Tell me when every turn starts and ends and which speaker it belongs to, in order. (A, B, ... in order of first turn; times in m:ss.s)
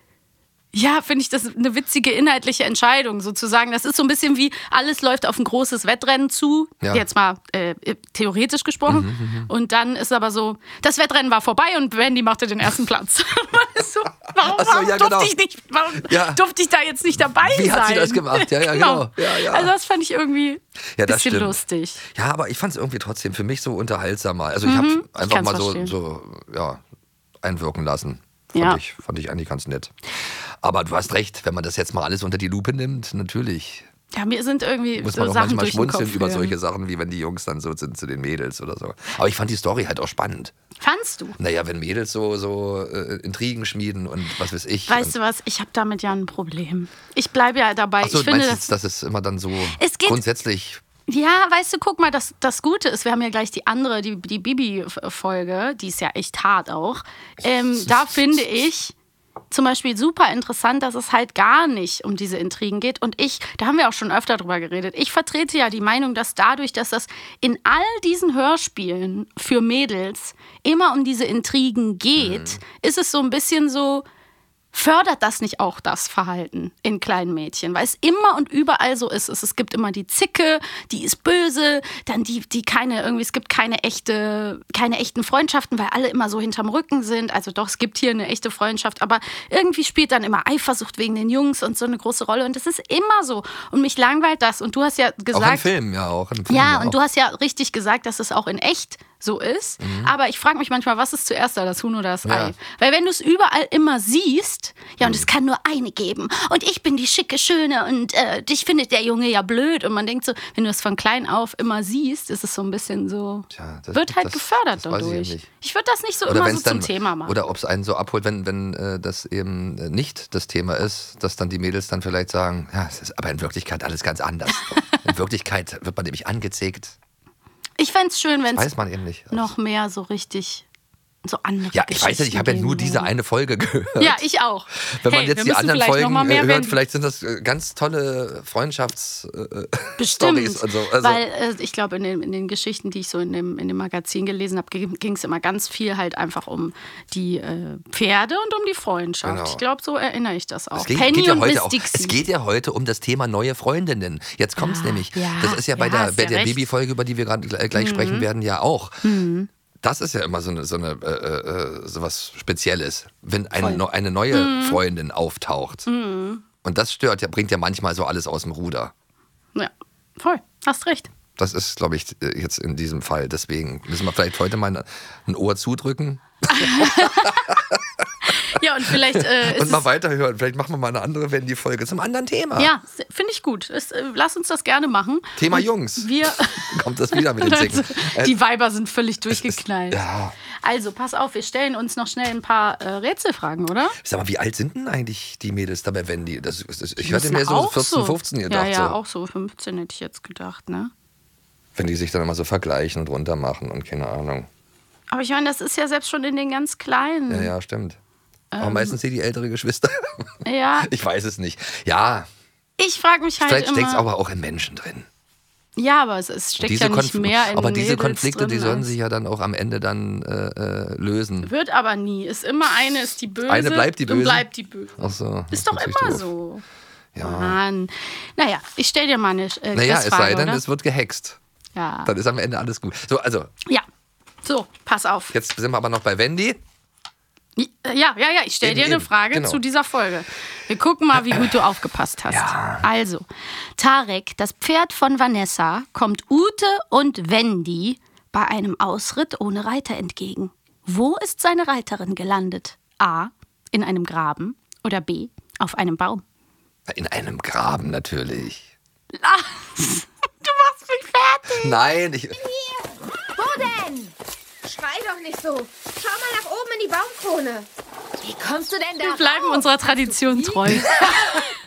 0:00.7-0:22.0 A
0:08.9-0:09.5 B
0:14.4-0:15.3 B
0:16.0-0:16.4 B
0:17.3-0:19.7 B
0:21.0-0:26.8 B
0:24.6-0:25.9 A
0:27.4-0:30.0 B
0:28.5-0:28.8 A
0:30.6-0:33.9 B
0:34.1-0:36.6 A
0:35.0-0:40.5 B
0:40.8-0:41.4 A
0:41.4-0:45.2 B
0:44.9-0:48.7 A
0:48.0-0:50.8 B
0:49.8-0:50.2 A
0:51.1-0:58.9 A
0:57.7-0:58.5 B
0:59.5-1:14.0 A
1:12.2-1:12.6 B
1:14.7-1:35.7 A
1:35.3-1:37.0 B
1:36.5-1:57.4 A
1:39.8-1:40.1 B
1:42.2-1:42.6 B
1:45.0-1:45.3 B
1:53.5-1:55.5 B
1:56.3-2:07.0 B
2:04.7-2:05.0 A
2:07.8-2:08.8 A
2:08.6-2:09.5 B
2:09.3-2:10.6 A
2:11.2-2:13.1 A
2:11.7-2:14.2 B
2:14.0-2:16.8 A
2:14.9-2:21.2 B
2:20.0-2:32.2 A
2:29.2-2:29.6 B
2:30.8-2:39.1 B
2:34.6-2:36.7 A
2:37.8-2:38.3 A
2:39.0-2:39.5 A
2:39.8-2:45.9 B
2:43.6-2:44.8 A
2:45.9-2:46.4 A
2:46.6-2:48.9 B
2:49.6-2:51.1 A
2:51.4-2:58.1 B
2:56.5-2:57.4 A
2:58.4-2:59.8 A
2:58.9-3:02.7 B
3:02.6-3:10.0 A
3:05.4-3:08.4 B
3:09.3-3:10.4 B
3:10.6-3:14.0 A
3:14.0-3:19.0 B
3:17.0-3:20.9 A
3:21.8-3:24.5 B
3:25.1-3:27.5 A
3:27.3-3:28.0 B
3:28.5-3:29.0 A
3:28.6-3:32.3 B
3:30.4-3:30.9 A
3:32.8-3:34.1 A
3:33.4-3:35.1 B
3:35.8-3:38.9 A
3:36.6-3:41.5 B
3:41.4-3:45.0 A
3:43.5-3:46.3 B
3:45.5-3:46.6 A
3:47.2-3:47.6 B
3:47.2-3:50.6 A
3:49.7-3:51.4 B
3:51.8-3:52.1 A
3:52.0-3:53.5 B
3:54.4-3:55.4 A
3:55.3-3:56.6 B
3:57.6-4:03.3 A
3:58.6-3:59.6 B
4:02.3-4:02.9 B
4:03.8-4:16.2 A
4:16.9-4:18.7 B
4:19.2-4:21.8 A
4:21.5-4:22.4 B
4:22.4-4:27.7 C
4:28.2-4:31.5 C
4:29.0-4:31.5 A